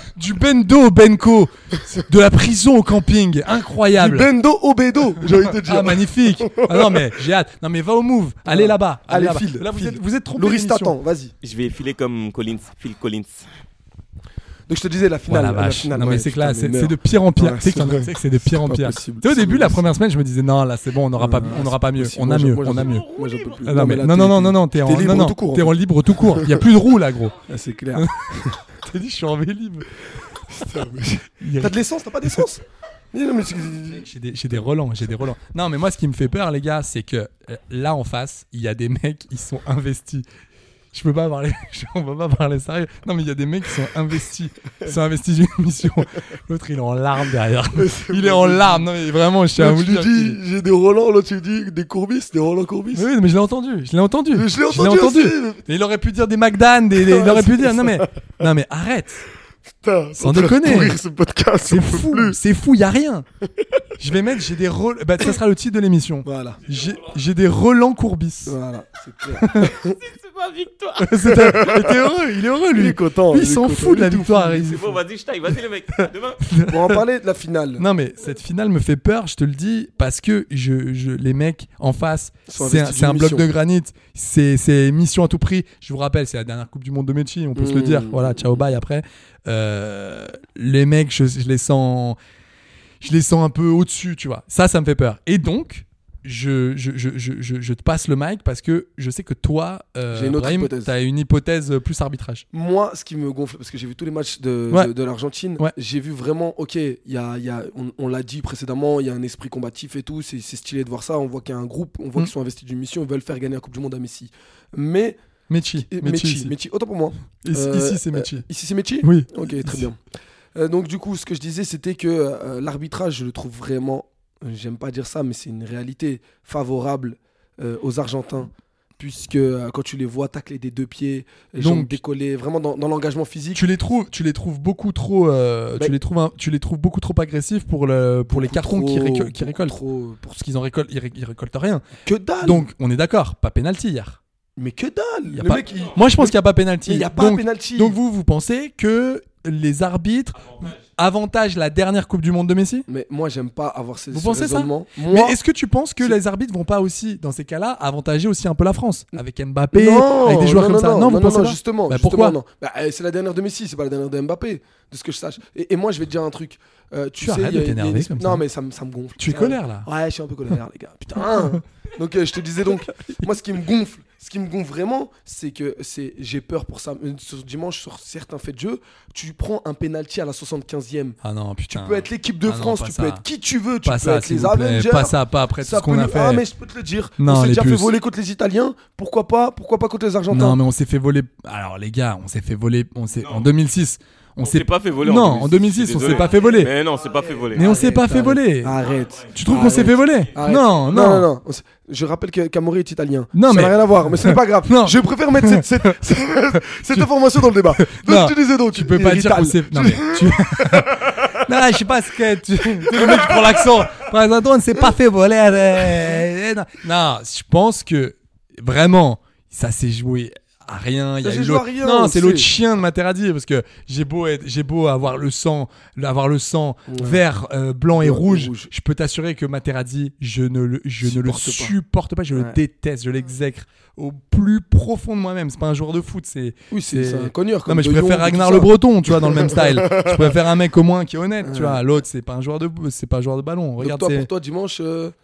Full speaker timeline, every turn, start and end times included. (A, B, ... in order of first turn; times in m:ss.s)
0:00.2-0:04.3 A
0:04.0-0:07.0 B
0:05.5-0:10.9 A
0:08.5-0:11.3 B
0:11.4-0:13.5 C
0:14.7-0:19.8 B
0:15.3-0:23.1 A
0:21.2-0:25.8 B
0:22.7-0:23.6 C
0:23.6-0:27.4 A
0:26.3-0:26.6 B
0:27.5-0:28.6 B
0:28.7-0:29.9 A
0:30.5-0:34.0 B
0:31.4-0:32.4 A
0:33.9-0:40.2 A
0:40.9-0:50.4 A
0:47.8-0:48.9 B
0:49.6-0:53.1 B
0:52.9-0:59.2 A
0:54.3-0:55.6 B
0:57.0-0:58.1 B
0:59.8-1:02.4 B
1:00.2-1:01.0 A
1:01.7-1:03.2 A
1:04.0-1:08.6 A
1:06.2-1:06.6 B
1:08.4-1:10.0 B
1:09.4-1:09.7 A
1:09.8-1:11.1 C
1:11.0-1:15.0 A
1:11.3-1:12.0 B
1:12.7-1:14.7 B
1:14.6-1:16.4 C
1:16.4-1:17.0 A
1:16.7-1:17.8 B
1:17.8-1:32.2 A
1:22.5-1:23.5 B
1:27.6-1:28.6 B
1:33.0-1:42.4 A
1:40.1-1:40.9 B
1:42.5-1:55.2 B
1:55.5-1:56.5 A
1:55.8-2:00.0 B
1:57.4-1:58.5 A
1:59.0-1:59.9 A
2:00.6-2:13.6 B
2:11.6-2:12.0 A
2:13.6-2:19.8 A
2:18.3-2:20.4 B
2:20.3-2:21.9 A
2:22.0-2:22.7 B
2:22.4-2:24.2 A
2:24.6-2:28.0 B
2:25.3-2:32.9 A
2:30.5-2:30.8 C
2:32.9-2:35.4 B
2:34.1-2:42.4 A
2:39.7-3:01.2 B
2:47.2-2:48.4 A
2:49.2-2:49.9 A
2:51.2-2:51.6 A
3:01.2-3:03.2 A
3:01.7-3:10.6 B
3:03.8-3:06.4 A
3:07.2-3:07.9 A
3:10.3-3:16.7 A
3:13.2-3:13.5 C
3:14.4-3:17.6 C
3:17.5-3:30.8 B
3:17.5-3:21.3 A
3:18.8-3:20.3 C
3:23.3-3:27.1 A
3:27.8-4:04.3 A
3:32.9-3:33.5 B
3:41.2-3:42.5 B
3:46.9-3:47.2 B
3:48.0-3:48.7 B
3:51.0-3:51.7 B
3:56.7-4:00.3 B
4:01.4-4:01.8 B
4:03.8-4:05.1 B